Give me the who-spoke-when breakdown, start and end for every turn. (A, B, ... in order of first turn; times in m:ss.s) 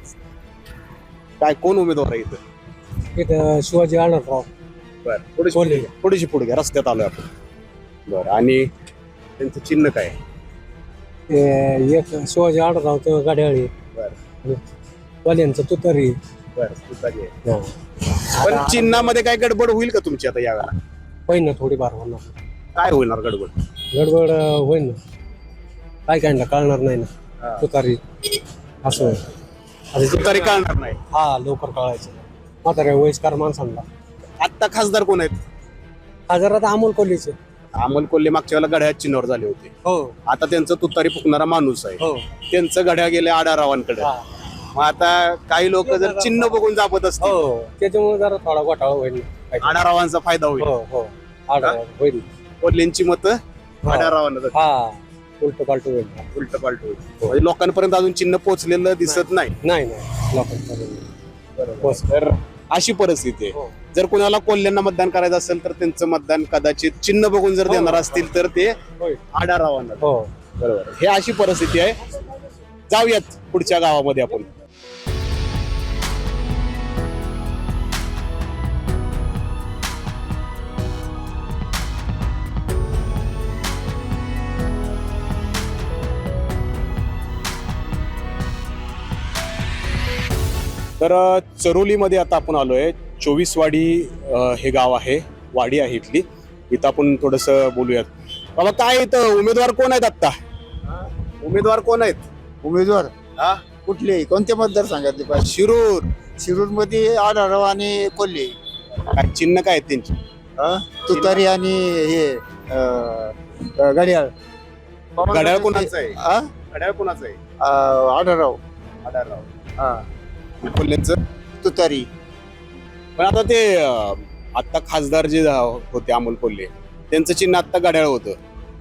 0:01.4-0:02.4 A
0:03.2-0:04.5 B
0:05.0-0:07.3 A
0:05.5-0:05.9 B
0:08.1-0:08.7 A
0:09.4-0:10.2 A
0:11.3-0:13.7 B
0:15.2-0:16.2 B
0:16.5-0:17.3 A
0:18.4-0:18.9 B
0:18.4-0:20.7 A
0:21.3-0:22.3 B
0:22.8-0:23.6 A
0:23.9-0:25.0 B
0:26.1-0:28.0 B
0:28.8-0:29.2 B
0:29.9-0:30.6 B
0:30.0-0:31.0 A
0:31.1-0:33.8 B
0:34.4-0:35.4 A
0:36.3-0:37.4 B
0:37.8-0:39.7 A
0:39.8-0:40.1 B
0:40.3-0:44.1 A
0:44.7-0:47.4 A
0:45.8-0:46.5 B
0:47.2-0:49.8 B
0:49.6-0:50.7 A
0:50.6-0:52.2 B
0:52.6-0:54.6 A
0:53.8-0:56.3 B
0:56.3-0:59.6 A
0:59.1-1:01.1 B
1:01.6-1:08.7 A
1:01.8-1:02.1 B
1:07.7-1:08.2 B
1:09.3-1:10.1 A
1:10.0-1:10.3 B
1:10.6-1:12.0 A
1:12.9-1:14.5 A
1:31.0-1:40.4 A
1:41.4-1:42.2 A
1:42.6-1:43.2 C
1:43.8-1:45.6 C
1:45.4-1:46.1 A
1:46.4-1:48.5 C
1:49.1-1:50.2 A
1:50.6-1:54.3 C
1:51.1-1:51.4 A
1:55.2-1:56.5 C
1:55.2-1:56.2 A
1:56.7-1:57.4 A
1:57.6-1:58.6 C
1:59.0-1:59.5 A
2:00.6-2:01.2 A
2:01.6-2:02.1 C
2:03.2-2:08.4 A